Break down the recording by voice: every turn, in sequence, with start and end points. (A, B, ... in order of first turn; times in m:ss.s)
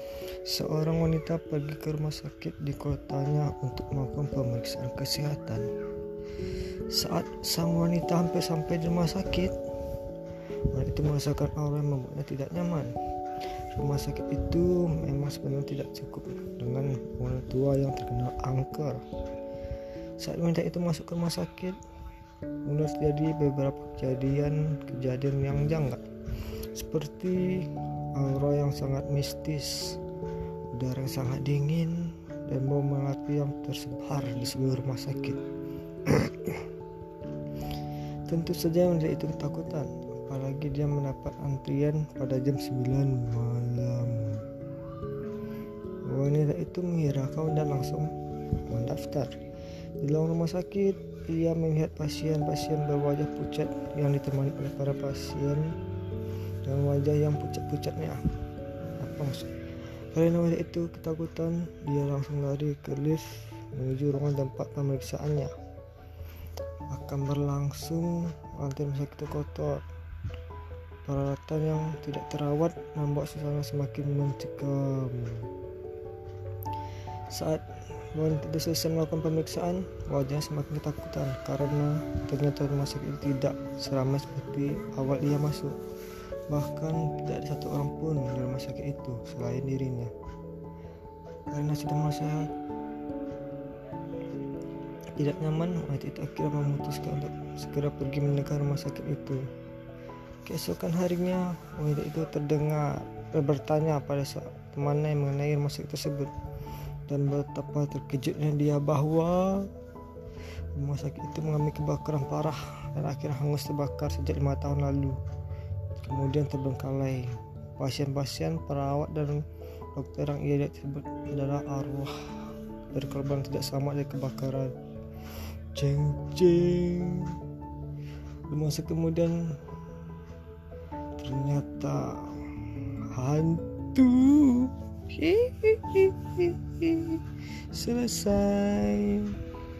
0:00.4-0:05.7 A
0:06.9-0:09.6 A
0:10.7-0:12.9 A
0:13.7-0:19.0 A
0:20.2-0:21.8 A
0:22.6-0:26.0 A
0:26.7-0:30.0 A
0:30.7-0:35.4 A
0:36.0-0:36.7 A
0:38.2-0:44.5 A
0:46.0-0:49.3 A
0:50.0-0:55.7 A
0:56.6-0:58.2 A
0:59.0-0:59.5 A
1:00.1-1:05.5 A
1:06.9-1:09.8 A
1:11.0-1:15.5 A
1:17.3-1:25.7 A
1:26.5-1:30.1 A
1:31.5-1:32.5 A
1:35.2-1:39.4 A
1:40.4-1:46.3 A
1:47.1-1:49.7 A
1:50.7-1:55.2 A
1:56.0-2:04.7 A
2:05.3-2:07.4 A
2:08.5-2:09.6 A
2:11.2-2:19.4 A